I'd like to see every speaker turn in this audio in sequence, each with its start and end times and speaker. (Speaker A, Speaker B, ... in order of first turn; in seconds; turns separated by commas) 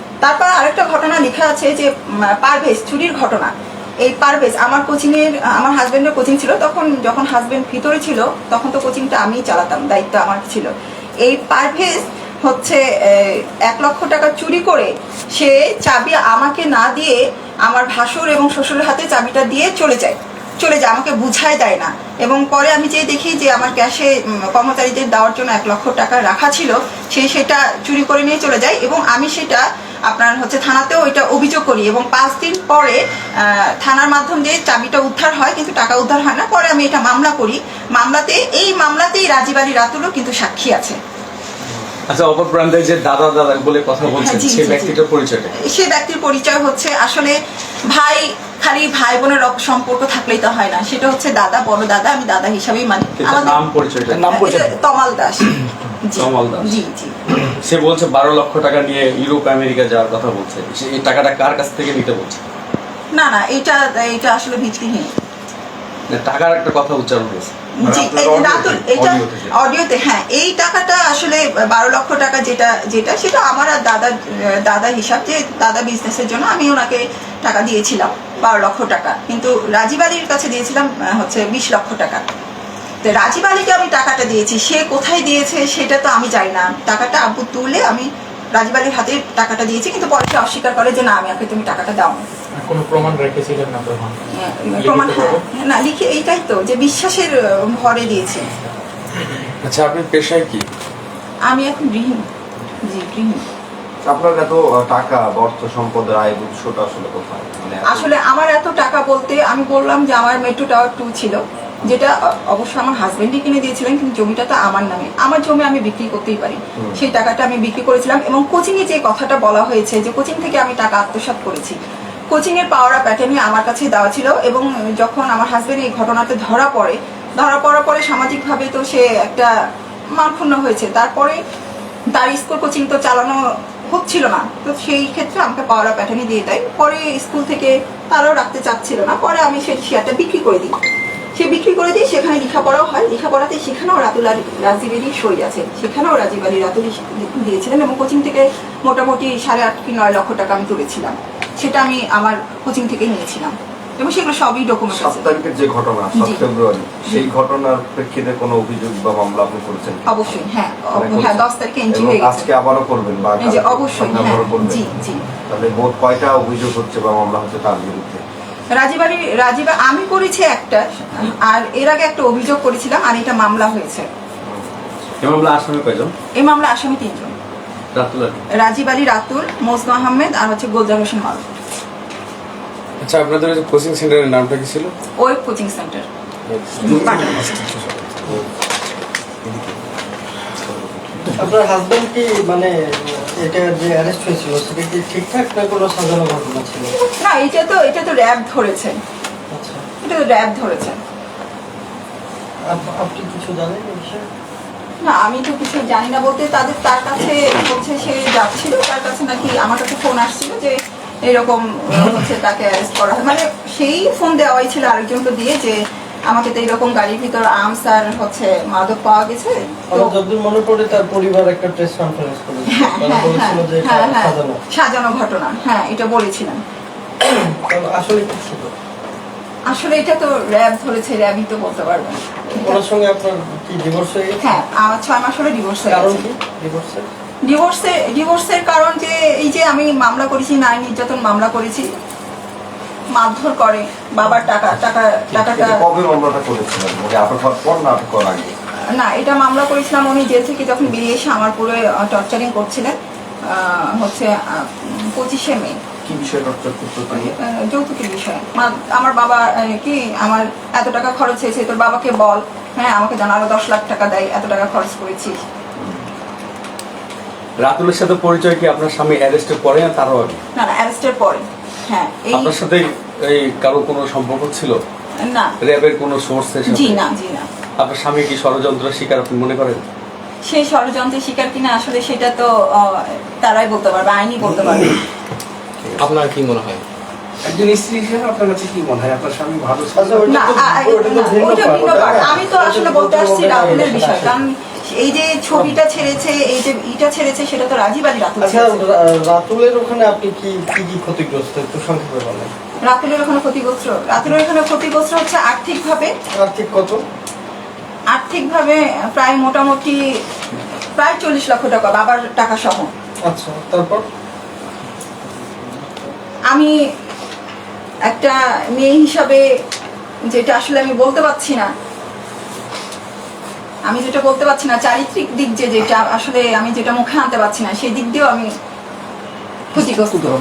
Speaker A: 0.2-10.7, Speaker A: 11.2-41.0, Speaker B: 42.1-45.5, Speaker A: 44.2-45.0, Speaker A: 45.5-53.6, Speaker B: 53.2-54.7, Speaker A: 54.3-55.5, Speaker A: 56.0-57.2, Speaker B: 56.1-56.8, Speaker B: 57.5-62.4, Speaker A: 63.1-65.1, Speaker B: 66.1-67.5, Speaker A: 67.8-82.2, Speaker C: 67.8-69.5, Speaker A: 83.0-92.2, Speaker D: 92.6-94.2, Speaker A: 94.4-98.5, Speaker D: 94.7-95.4, Speaker B: 99.6-100.7, Speaker A: 101.5-102.3, Speaker A: 102.8-103.4, Speaker C: 104.0-108.1, Speaker A: 107.9-121.8, Speaker A: 122.3-129.5, Speaker A: 130.1-131.4, Speaker A: 132.1-140.7, Speaker A: 141.4-155.3, Speaker C: 154.9-160.2, Speaker A: 156.2-156.4, Speaker A: 160.1-162.5, Speaker C: 160.9-164.8, Speaker A: 163.4-165.2, Speaker C: 165.5-168.2, Speaker A: 168.7-174.1, Speaker C: 174.5-174.8, Speaker B: 175.2-176.1, Speaker A: 176.3-177.3, Speaker B: 177.9-178.4, Speaker A: 178.6-181.4, Speaker B: 183.0-184.9, Speaker A: 185.2-186.1, Speaker B: 186.5-188.4, Speaker A: 186.8-187.6, Speaker B: 190.7-191.4, Speaker E: 191.4-196.9, Speaker A: 197.1-199.0, Speaker E: 199.5-199.8, Speaker A: 200.0-201.0, Speaker E: 202.7-204.3, Speaker A: 205.0-220.1, Speaker E: 219.9-224.6, Speaker A: 222.7-226.6, Speaker E: 227.2-228.7, Speaker A: 229.7-232.8, Speaker E: 232.6-234.6, Speaker A: 234.4-236.3, Speaker E: 235.9-237.1, Speaker A: 237.4-241.9, Speaker A: 243.1-245.8, Speaker C: 245.4-248.6, Speaker A: 248.9-253.0, Speaker A: 253.5-255.8, Speaker C: 256.1-257.3, Speaker A: 257.1-265.4, Speaker B: 267.6-270.4, Speaker A: 270.6-272.6, Speaker B: 272.3-274.8, Speaker A: 275.2-275.6, Speaker B: 275.6-277.0, Speaker A: 276.7-277.5, Speaker B: 277.8-279.9, Speaker A: 280.4-285.0, Speaker F: 287.4-290.6, Speaker E: 289.9-294.4, Speaker A: 290.3-298.8, Speaker E: 298.4-302.6, Speaker A: 302.8-306.1, Speaker E: 306.4-307.0, Speaker A: 308.1-310.0, Speaker A: 311.0-312.9, Speaker E: 313.2-314.1, Speaker A: 318.1-319.5, Speaker A: 320.3-321.7, Speaker A: 323.9-328.5, Speaker A: 329.7-330.2